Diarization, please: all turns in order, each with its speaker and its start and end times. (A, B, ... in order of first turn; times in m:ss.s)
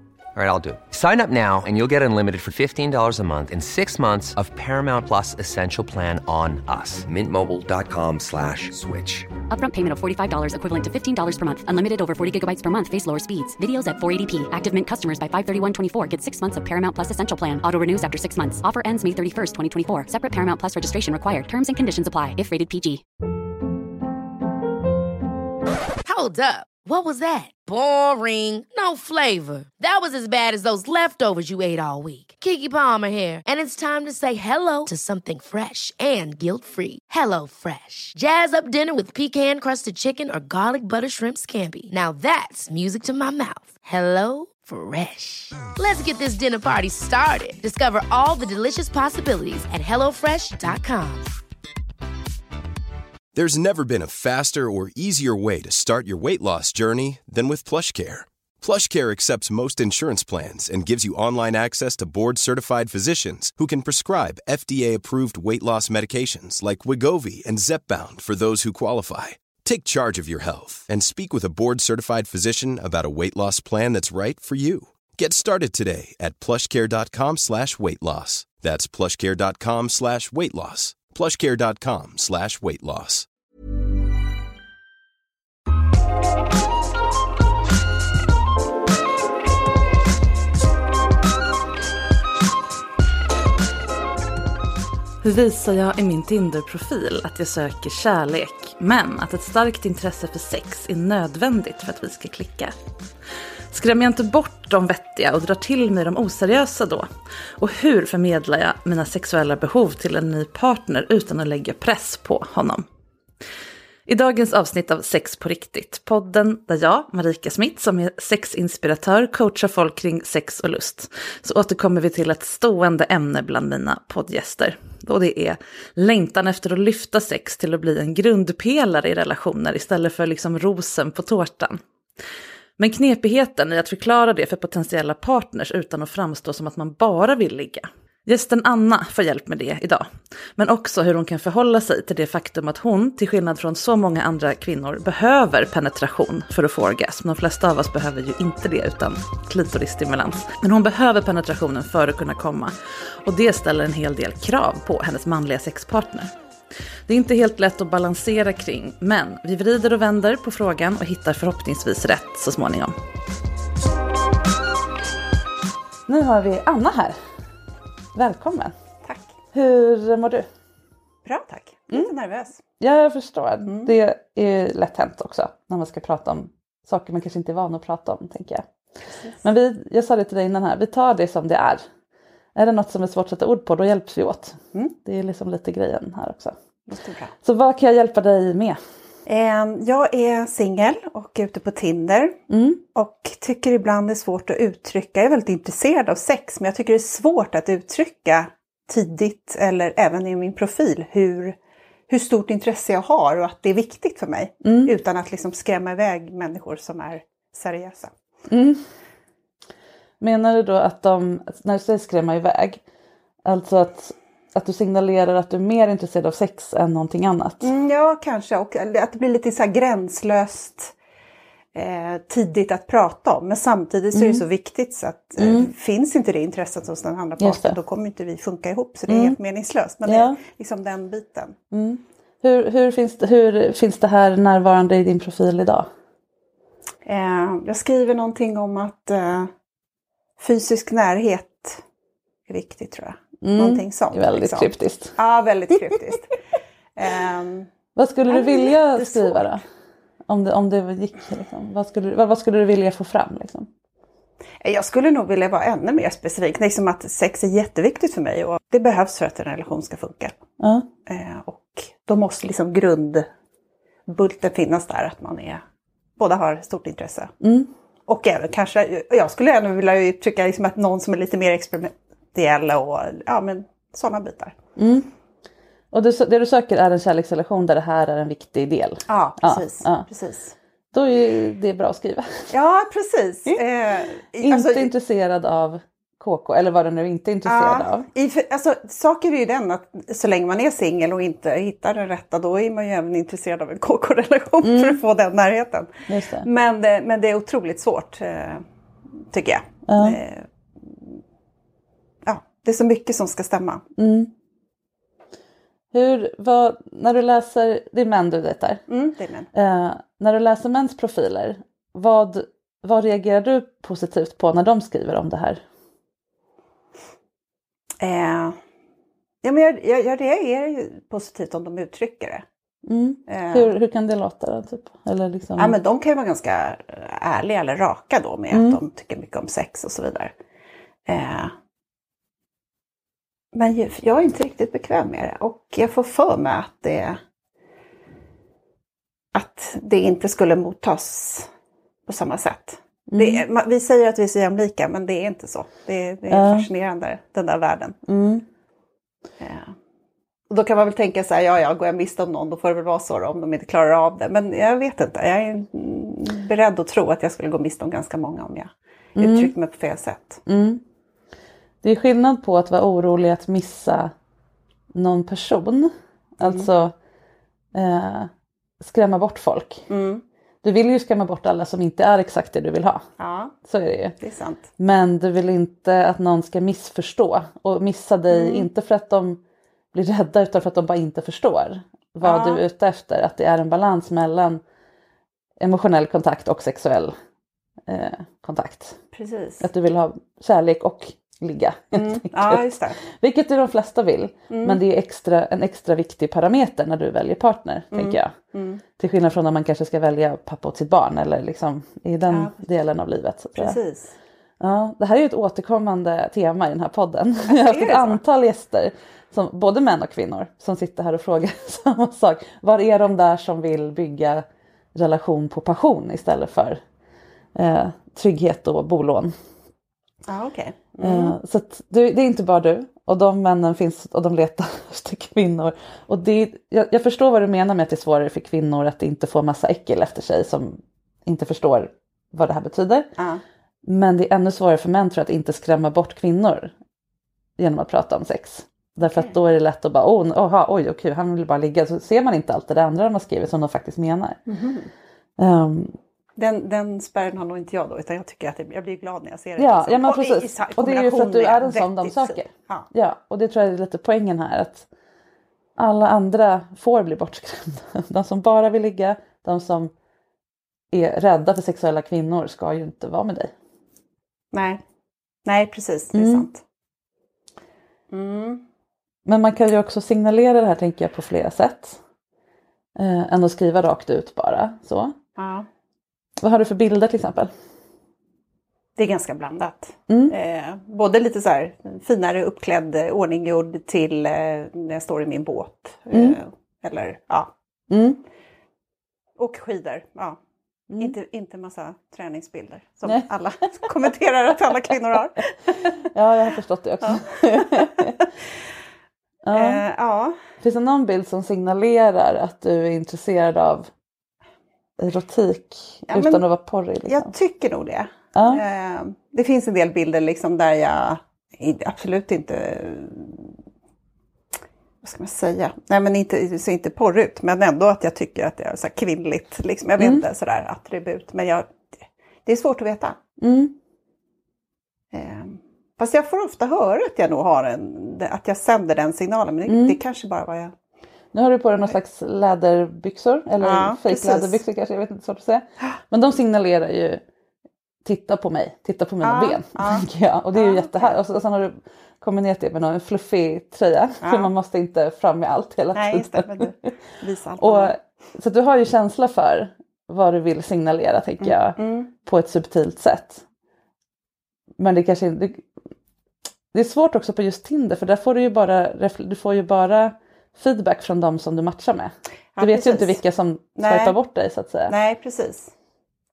0:00.3-0:09.3 A
0:09.5-0:23.0 B
0:26.0-0:51.3 C
0:53.3-1:23.3 D
1:35.2-1:42.7 E
1:43.7-1:52.8 E
1:54.1-2:11.8 E
2:12.8-2:36.3 E
2:37.0-2:42.9 E
2:46.1-2:47.2 E
2:48.1-2:48.7 E
2:49.0-2:49.3 F
2:49.5-2:50.5 E
2:51.2-2:52.6 F
2:52.8-2:58.6 E
2:53.6-2:53.9 F
2:59.1-2:59.4 F
2:59.4-3:01.8 E
3:02.6-3:06.6 E
3:06.9-3:07.3 F
3:07.4-3:08.8 E
3:09.2-3:12.4 F
3:12.5-3:12.8 E
3:12.9-3:21.6 F
3:22.1-3:28.1 F
3:24.6-3:24.9 E
3:28.5-3:28.8 E
3:30.2-3:32.8 E
3:33.4-3:37.7 E
3:37.6-3:40.9 F
3:41.7-3:51.6 F
3:44.1-3:44.4 E
3:45.4-3:45.7 E
3:47.4-3:47.8 E
3:49.1-3:49.4 E
3:50.0-3:50.4 E
3:51.7-3:55.9 E
3:57.0-3:59.5 F
4:00.4-4:01.8 F
4:02.5-4:06.3 F
4:03.4-4:05.2 E
4:07.0-4:07.7 F
4:08.0-4:09.6 E
4:08.3-4:09.6 F
4:10.3-4:13.7 E
4:14.6-4:20.4 F
4:20.6-4:20.9 E
4:21.0-4:23.3 F
4:24.1-4:25.6 F
4:26.2-4:27.3 F
4:27.4-4:27.7 E
4:28.1-4:34.5 F
4:34.8-4:35.1 E
4:35.9-4:40.0 E
4:39.1-4:40.5 F
4:40.9-4:42.5 E
4:42.5-4:44.9 F
4:44.4-4:48.0 E
4:47.4-4:58.6 F
4:54.6-4:55.0 E
4:56.1-4:56.5 E
4:59.3-5:01.1 F
4:59.9-5:00.2 E
5:02.2-5:03.8 F
5:04.0-5:04.3 E
5:05.9-5:08.8 E
5:08.9-5:09.5 F
5:09.5-5:15.6 E
5:18.0-5:18.6 F
5:19.4-5:22.4 F
5:22.8-5:25.8 E
5:23.3-5:23.7 F
5:25.6-5:30.3 F
5:28.5-5:28.8 E
5:31.1-5:31.5 F
5:33.5-5:37.2 F
5:39.3-5:41.5 F
5:42.1-5:48.0 F
5:43.1-5:43.4 E
5:46.3-5:46.7 E
5:48.0-5:48.4 E
5:49.4-5:49.7 F
5:50.5-6:00.4 F
5:59.2-5:59.5 E
6:00.4-6:00.8 E
6:01.8-6:04.1 E
6:04.9-6:06.9 E
6:06.4-6:06.7 F
6:07.7-6:09.9 E
6:09.9-6:10.2 F
6:10.6-6:13.1 E
6:13.2-6:13.6 F
6:13.6-6:14.2 E
6:14.2-6:14.7 F
6:14.8-6:19.4 E
6:18.3-6:18.7 F
6:19.9-6:24.6 E
6:22.2-6:22.6 F
6:25.6-6:27.1 E
6:27.9-6:29.0 E
6:29.1-6:29.6 F
6:29.6-6:38.4 E
6:31.9-6:33.0 F
6:34.5-6:34.8 F
6:37.9-6:38.8 F
6:39.0-6:43.8 E
6:42.3-6:42.5 F
6:43.6-6:44.1 F
6:44.6-6:54.4 E
6:47.5-6:48.2 F
6:54.9-6:56.8 E
6:57.6-6:59.3 E
7:00.3-7:01.4 F
7:01.0-7:13.1 E
7:13.8-7:16.7 E
7:17.6-7:24.4 E
7:24.5-7:24.9 F
7:25.4-7:26.0 E
7:26.4-7:32.9 F
7:29.6-7:34.9 E
7:35.8-7:39.9 E
7:40.9-7:43.5 E
7:44.5-7:44.8 F
7:45.4-7:46.6 F
7:46.1-7:46.5 E
7:48.1-7:48.6 F
7:49.2-7:52.0 E
7:53.0-7:55.2 E
7:55.4-7:55.7 F
7:56.4-7:57.5 E
7:59.0-8:07.5 F
8:00.1-8:00.3 E
8:06.1-8:06.4 E
8:07.9-8:08.2 E
8:09.4-8:10.4 F
8:10.9-8:11.1 E
8:11.0-8:16.0 F
8:16.1-8:18.1 E
8:17.0-8:18.2 F
8:19.4-8:19.8 E
8:19.5-8:20.4 F
8:20.6-8:23.9 E
8:25.0-8:27.3 E
8:26.1-8:26.4 F
8:27.1-8:33.5 F
8:28.3-8:28.6 E
8:35.0-8:41.9 F
8:40.0-8:40.2 E
8:42.4-8:43.2 F
8:43.4-8:43.8 E
8:45.1-8:50.7 F
8:49.7-8:50.0 E
8:51.3-8:57.2 E
8:53.6-8:54.6 F
8:58.0-9:06.7 E
8:59.2-9:01.2 F
9:04.2-9:04.5 F
9:05.9-9:07.9 F
9:07.6-9:13.4 E
9:11.4-9:12.1 F
9:14.8-9:15.6 E
9:16.7-9:24.9 E
9:22.6-9:23.2 F
9:23.8-9:24.2 F
9:24.9-9:25.7 F